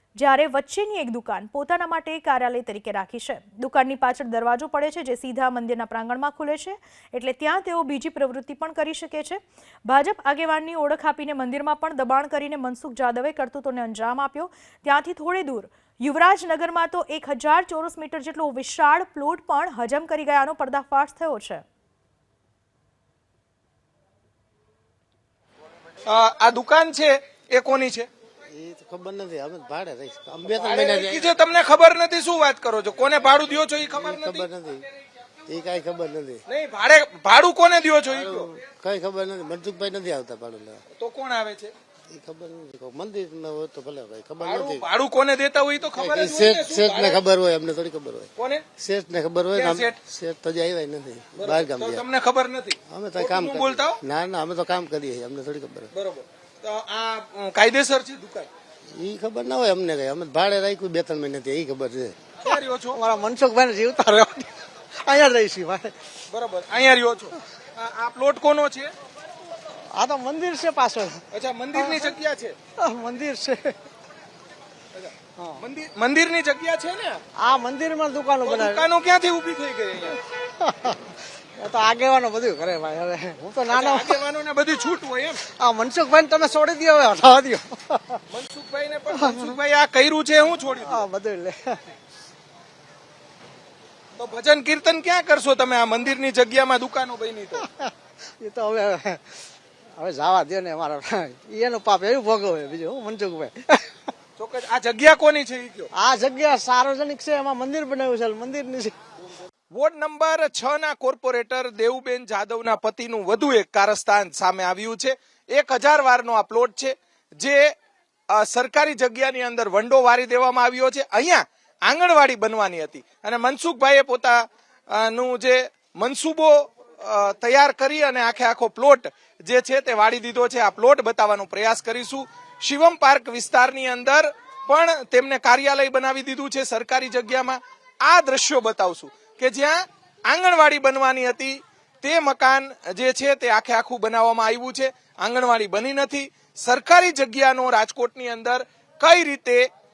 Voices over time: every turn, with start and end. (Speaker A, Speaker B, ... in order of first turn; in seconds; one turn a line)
Speaker A: 0.2-21.6
Speaker B: 26.1-28.1
Speaker C: 28.5-31.3
Speaker B: 30.6-34.4
Speaker C: 34.0-34.9
Speaker C: 35.5-36.4
Speaker B: 36.5-38.5
Speaker C: 38.1-40.8
Speaker B: 41.0-41.7
Speaker C: 42.1-44.8
Speaker B: 44.4-47.2
Speaker C: 46.0-52.0
Speaker B: 48.4-48.6
Speaker B: 49.5-50.0
Speaker B: 51.4-54.0
Speaker C: 52.9-55.9
Speaker B: 55.9-58.5
Speaker C: 58.9-62.1
Speaker B: 62.4-63.0
Speaker D: 62.5-66.0
Speaker B: 66.3-68.9
Speaker D: 69.7-71.2
Speaker B: 71.3-72.5
Speaker D: 71.7-72.1
Speaker D: 72.8-73.8
Speaker B: 74.9-77.2
Speaker D: 75.4-75.6
Speaker D: 77.4-78.8
Speaker B: 78.4-80.2
Speaker D: 80.4-84.2
Speaker B: 83.7-85.4
Speaker D: 85.5-88.2
Speaker B: 88.3-91.1
Speaker D: 89.1-89.5
Speaker D: 90.8-91.9
Speaker B: 94.2-97.7
Speaker D: 97.6-99.4
Speaker D: 100.0-104.0
Speaker B: 104.4-105.9
Speaker D: 105.9-109.0
Speaker B: 109.7-117.7
Speaker B: 118.3-149.7